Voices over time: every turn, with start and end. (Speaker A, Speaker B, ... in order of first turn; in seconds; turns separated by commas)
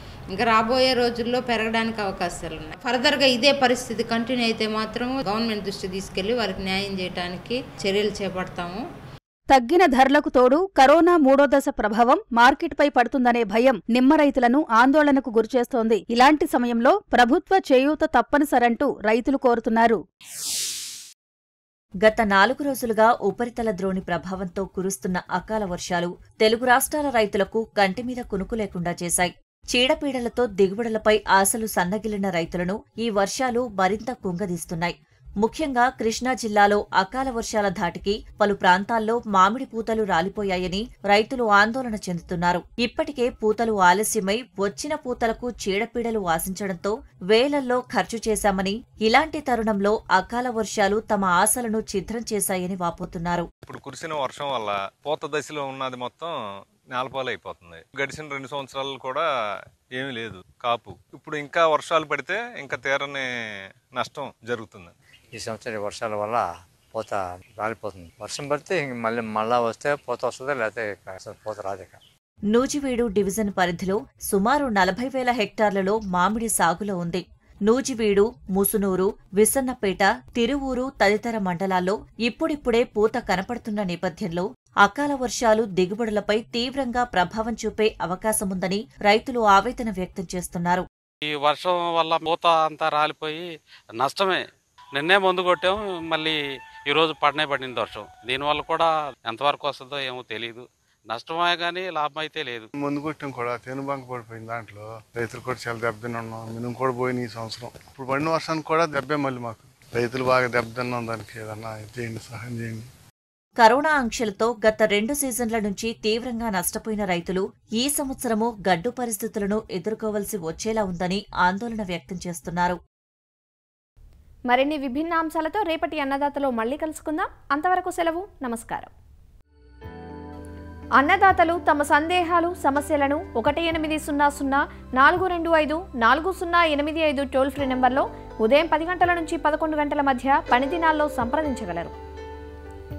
Speaker A: 0.3-8.8, Speaker B: 9.5-20.0, Speaker C: 22.0-53.5, Speaker D: 53.6-56.3, Speaker D: 56.9-59.2, Speaker D: 60.0-63.2, Speaker D: 64.0-64.9, Speaker E: 65.3-72.0, Speaker C: 72.5-90.8, Speaker F: 91.3-93.4, Speaker F: 94.0-94.4, Speaker F: 95.0-96.3, Speaker F: 96.9-102.7, Speaker G: 102.8-112.9, Speaker C: 113.6-122.8, Speaker H: 124.5-128.9, Speaker H: 131.0-141.9